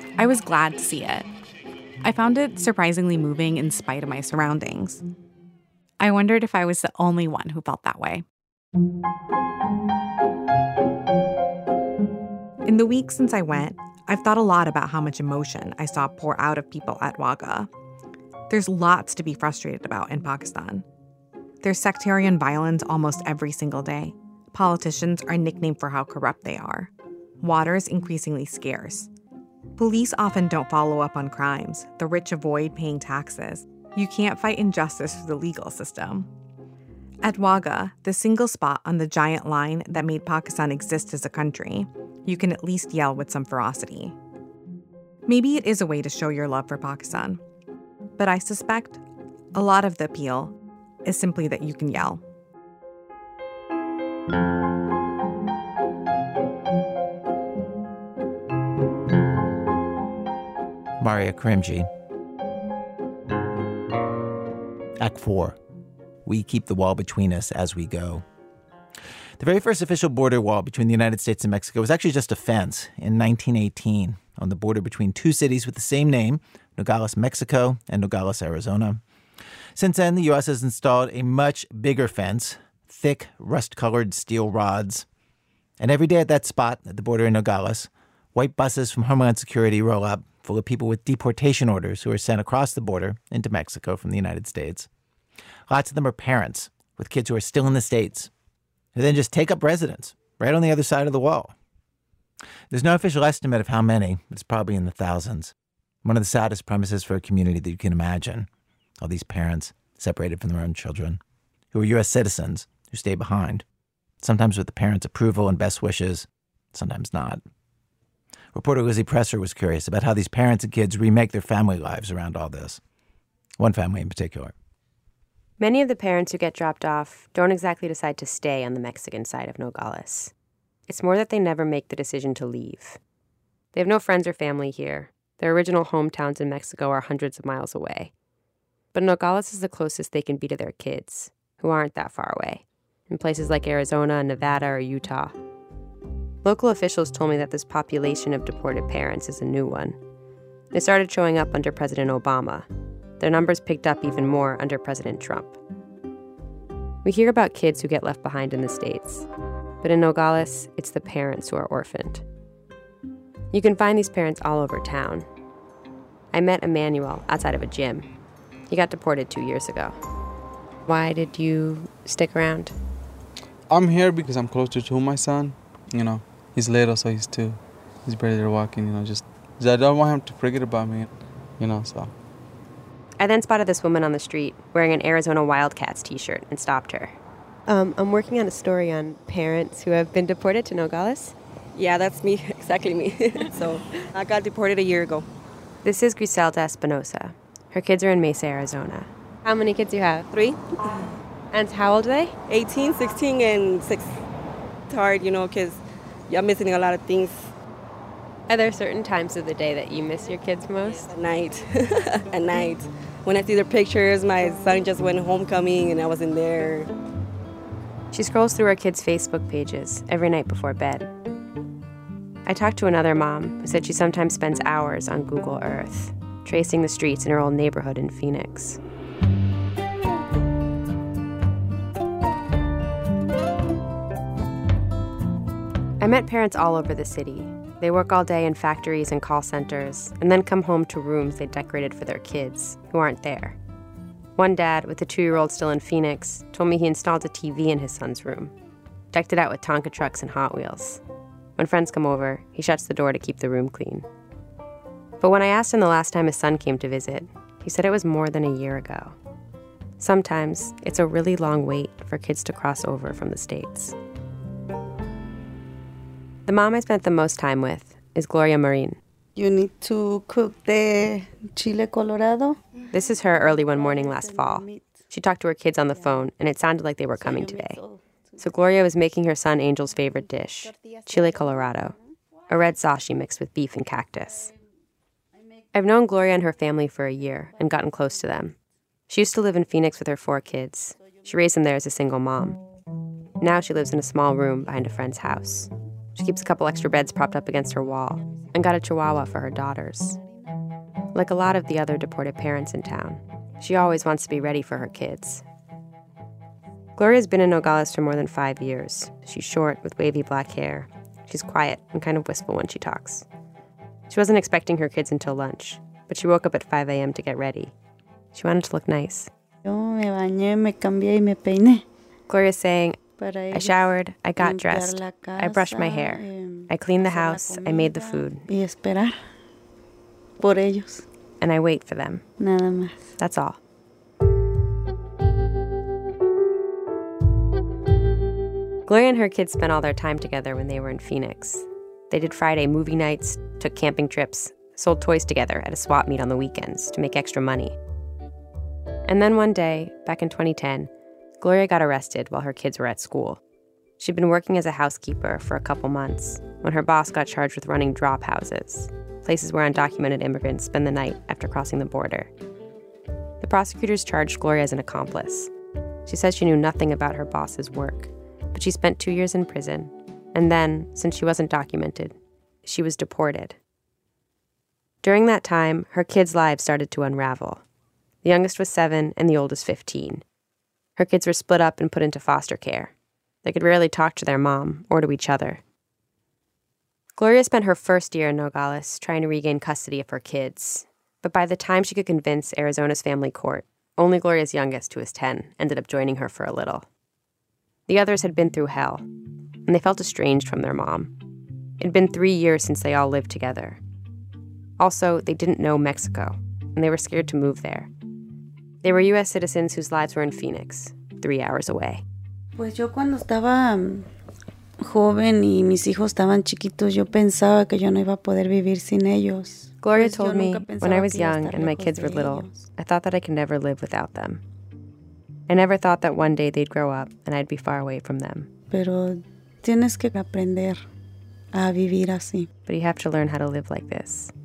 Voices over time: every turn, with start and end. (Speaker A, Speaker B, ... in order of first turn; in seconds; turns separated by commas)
Speaker A: 0.2-1.3, Speaker A: 2.0-5.0, Speaker A: 6.0-8.2, Speaker A: 12.6-17.7, Speaker A: 18.5-20.8, Speaker A: 21.6-29.1, Speaker A: 29.8-36.3, Speaker A: 37.2-44.1, Speaker A: 45.3-47.4, Speaker A: 48.2-49.0, Speaker A: 49.5-50.5, Speaker A: 51.0-52.2, Speaker B: 61.0-61.9, Speaker B: 65.0-65.6, Speaker B: 66.2-68.2, Speaker B: 69.4-79.0, Speaker B: 79.8-85.0, Speaker B: 85.8-94.9, Speaker B: 95.7-98.3, Speaker B: 98.9-101.5, Speaker B: 102.7-105.5, Speaker B: 106.0-108.5, Speaker B: 109.0-111.2, Speaker B: 111.7-113.6, Speaker B: 114.2-117.4, Speaker B: 118.5-122.8, Speaker B: 123.6-124.5, Speaker C: 125.6-130.3, Speaker C: 130.9-133.0, Speaker C: 133.7-138.1, Speaker C: 138.9-145.3, Speaker C: 146.4-150.0, Speaker C: 150.7-152.7, Speaker C: 153.2-155.6, Speaker C: 157.0-159.2, Speaker C: 159.8-162.2, Speaker C: 163.5-165.2, Speaker C: 166.3-168.1, Speaker C: 168.7-169.9, Speaker C: 170.9-172.7, Speaker D: 173.7-182.1, Speaker C: 183.2-187.2, Speaker C: 187.7-191.3, Speaker E: 191.7-195.3, Speaker C: 195.8-200.3, Speaker E: 200.3-200.7, Speaker C: 201.5-202.3, Speaker E: 202.5-204.2, Speaker E: 204.9-207.5, Speaker C: 208.5-211.1, Speaker E: 211.1-216.9, Speaker C: 218.1-221.1, Speaker C: 222.4-228.8, Speaker C: 236.0-243.6, Speaker C: 244.4-248.5, Speaker C: 249.1-251.0, Speaker C: 251.6-254.1, Speaker C: 255.2-259.1, Speaker C: 260.0-263.9, Speaker C: 266.4-269.0, Speaker F: 269.4-272.6, Speaker C: 272.9-277.8, Speaker F: 273.4-275.0, Speaker F: 277.1-278.0, Speaker C: 278.4-281.9, Speaker F: 280.7-281.0, Speaker C: 282.5-284.5, Speaker C: 285.7-288.5, Speaker C: 289.1-292.6, Speaker C: 293.4-300.2, Speaker C: 301.1-305.4, Speaker C: 306.9-313.2, Speaker C: 314.1-317.7, Speaker C: 318.3-319.3, Speaker F: 319.6-321.8, Speaker C: 322.3-328.4, Speaker F: 323.1-323.8, Speaker F: 324.4-329.2, Speaker F: 330.4-331.0, Speaker C: 331.4-332.2, Speaker F: 332.4-333.1, Speaker C: 333.2-333.6, Speaker C: 338.9-347.7, Speaker C: 349.1-353.4, Speaker C: 354.0-362.3, Speaker C: 363.4-365.5, Speaker C: 366.1-373.6, Speaker C: 375.0-377.6, Speaker C: 378.2-380.2, Speaker C: 381.0-382.9, Speaker C: 383.4-385.6, Speaker C: 387.1-396.9, Speaker C: 397.9-399.0, Speaker C: 399.6-401.1, Speaker C: 401.8-403.8, Speaker C: 404.8-407.9, Speaker C: 408.8-412.0, Speaker F: 412.6-414.1, Speaker F: 414.8-422.6, Speaker C: 419.8-424.4, Speaker C: 425.5-428.5, Speaker F: 428.7-430.8, Speaker F: 431.5-432.5, Speaker C: 432.6-434.3